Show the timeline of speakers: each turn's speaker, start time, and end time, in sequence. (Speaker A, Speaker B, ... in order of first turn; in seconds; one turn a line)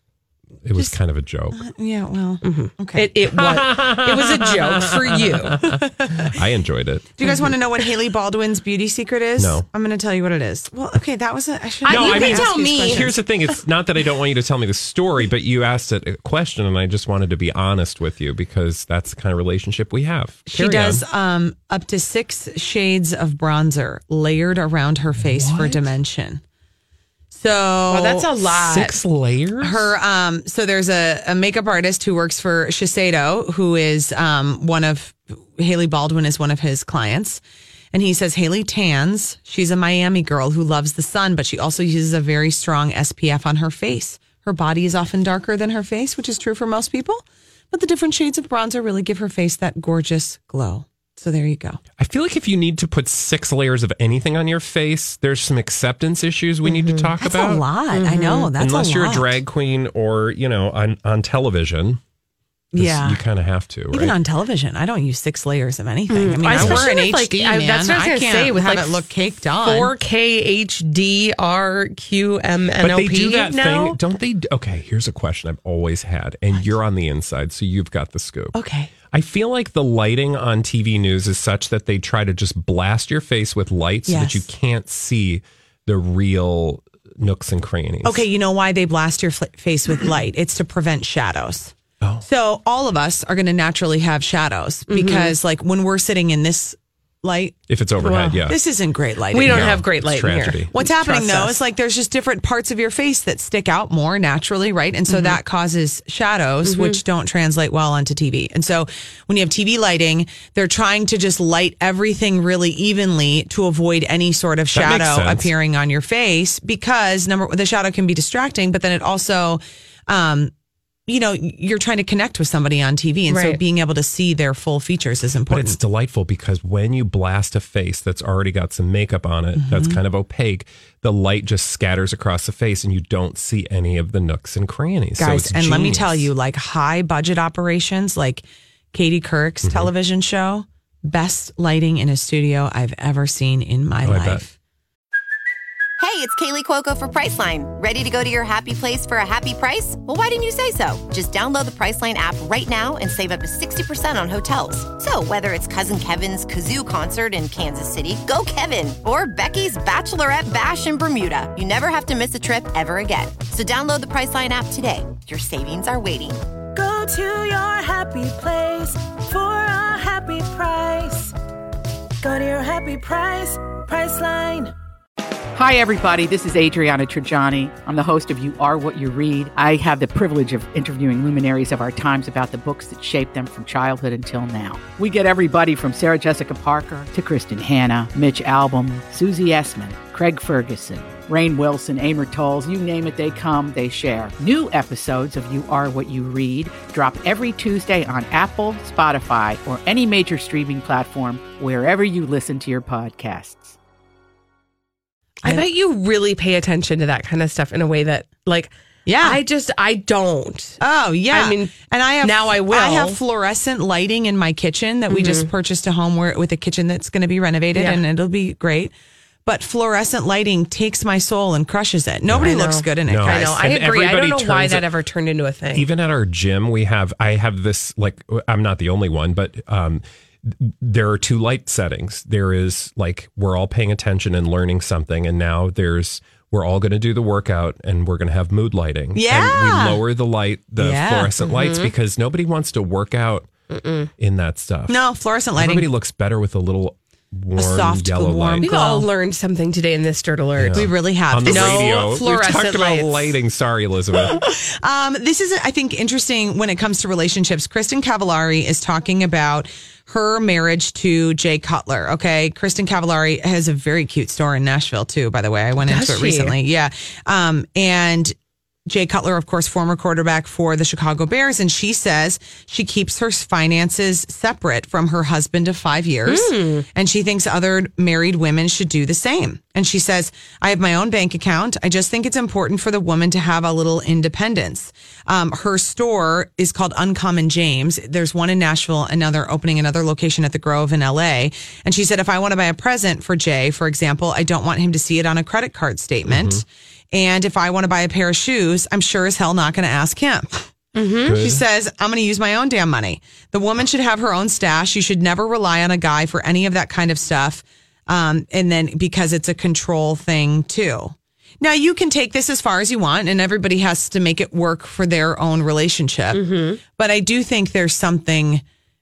Speaker A: 0.6-1.6
Speaker B: 1.5-3.1
Speaker C: 2.4-5.7
Speaker A: 3.3-7.1
Speaker B: 7.2-13.1
Speaker A: 9.4-9.6
Speaker C: 11.8-13.1
Speaker A: 11.9-21.0
Speaker B: 20.5-26.4
Speaker A: 25.2-25.9
Speaker B: 27.3-28.2
Speaker C: 27.9-29.0
Speaker A: 28.4-29.9
Speaker B: 29.6-37.4
Speaker B: 37.9-51.8
Speaker A: 52.0-57.6
Speaker B: 57.2-59.3
Speaker C: 57.9-58.5
Speaker A: 58.6-62.0
Speaker B: 62.7-63.2
Speaker A: 62.8-64.2
Speaker B: 63.9-69.9
Speaker C: 66.1-69.1
Speaker A: 66.5-66.9
Speaker C: 69.6-74.0
Speaker A: 72.8-78.5
Speaker B: 78.5-78.9
Speaker A: 79.1-88.2
Speaker B: 84.1-84.4
Speaker B: 88.0-97.6
Speaker C: 94.9-95.3
Speaker A: 97.7-98.5
Speaker C: 98.0-98.5
Speaker B: 98.5-99.8
Speaker C: 99.3-101.6
Speaker A: 99.4-100.7
Speaker B: 100.7-120.5
Speaker C: 105.1-105.4
Speaker C: 106.6-107.0
Speaker A: 114.7-115.5
Speaker B: 121.1-125.8
Speaker C: 123.3-123.6
Speaker A: 125.5-136.3
Speaker B: 129.6-130.0
Speaker B: 135.2-144.5
Speaker A: 139.6-139.9
Speaker A: 144.0-144.4
Speaker D: 146.0-166.4
Speaker E: 166.7-171.3
Speaker E: 172.2-174.7
Speaker F: 175.5-203.8
Speaker C: 205.4-210.8
Speaker B: 209.1-209.4
Speaker B: 210.8-218.9
Speaker C: 211.3-213.2
Speaker C: 215.1-215.5
Speaker C: 217.7-218.0
Speaker B: 219.4-223.6
Speaker A: 222.3-222.5
Speaker C: 222.4-225.8
Speaker A: 223.1-224.9
Speaker A: 225.7-243.5
Speaker B: 239.1-240.0
Speaker B: 240.8-241.3
Speaker C: 241.4-241.9
Speaker C: 243.7-244.1
Speaker A: 244.2-245.0
Speaker B: 244.9-245.9
Speaker A: 245.5-248.7
Speaker B: 247.5-249.1
Speaker C: 248.6-250.9
Speaker A: 250.6-254.4
Speaker B: 250.7-251.9
Speaker C: 251.4-253.4
Speaker B: 254.6-268.3
Speaker C: 265.8-266.5
Speaker B: 268.9-300.7
Speaker C: 276.3-276.9
Speaker A: 296.2-296.6
Speaker C: 300.9-301.4
Speaker B: 301.2-318.6
Speaker A: 301.3-301.6
Speaker C: 316.3-316.8